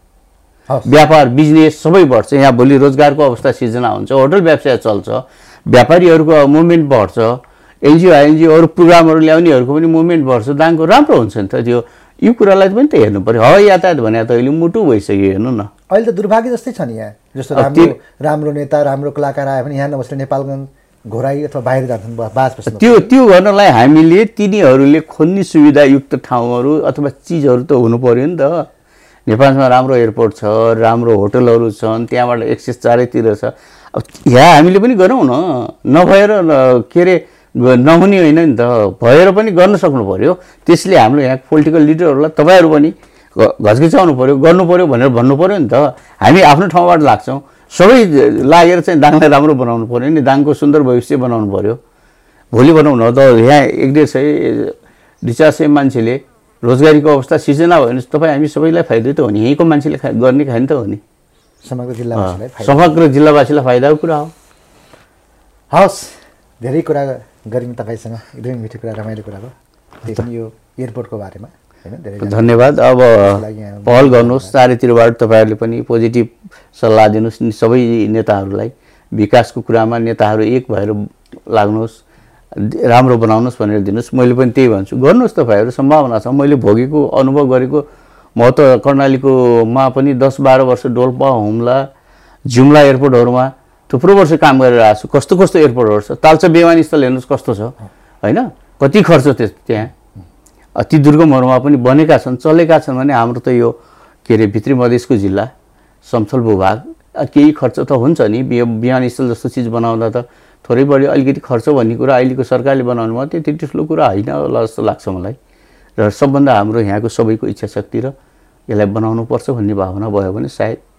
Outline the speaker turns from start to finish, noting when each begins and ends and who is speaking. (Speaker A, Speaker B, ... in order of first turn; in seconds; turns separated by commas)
Speaker A: 0.7-1.0, Speaker B: 0.8-15.7, Speaker A: 15.9-23.1, Speaker B: 17.5-17.9, Speaker B: 22.7-28.7, Speaker B: 29.2-51.8, Speaker B: 52.5-61.0, Speaker A: 61.6-62.9, Speaker B: 62.1-64.3, Speaker A: 65.7-69.5, Speaker A: 70.0-72.6, Speaker B: 72.2-82.0, Speaker A: 73.2-74.5, Speaker B: 82.5-87.8, Speaker B: 88.4-91.9, Speaker B: 92.5-99.9, Speaker B: 100.8-105.5, Speaker B: 106.0-115.4, Speaker B: 116.0-118.1, Speaker B: 118.7-120.8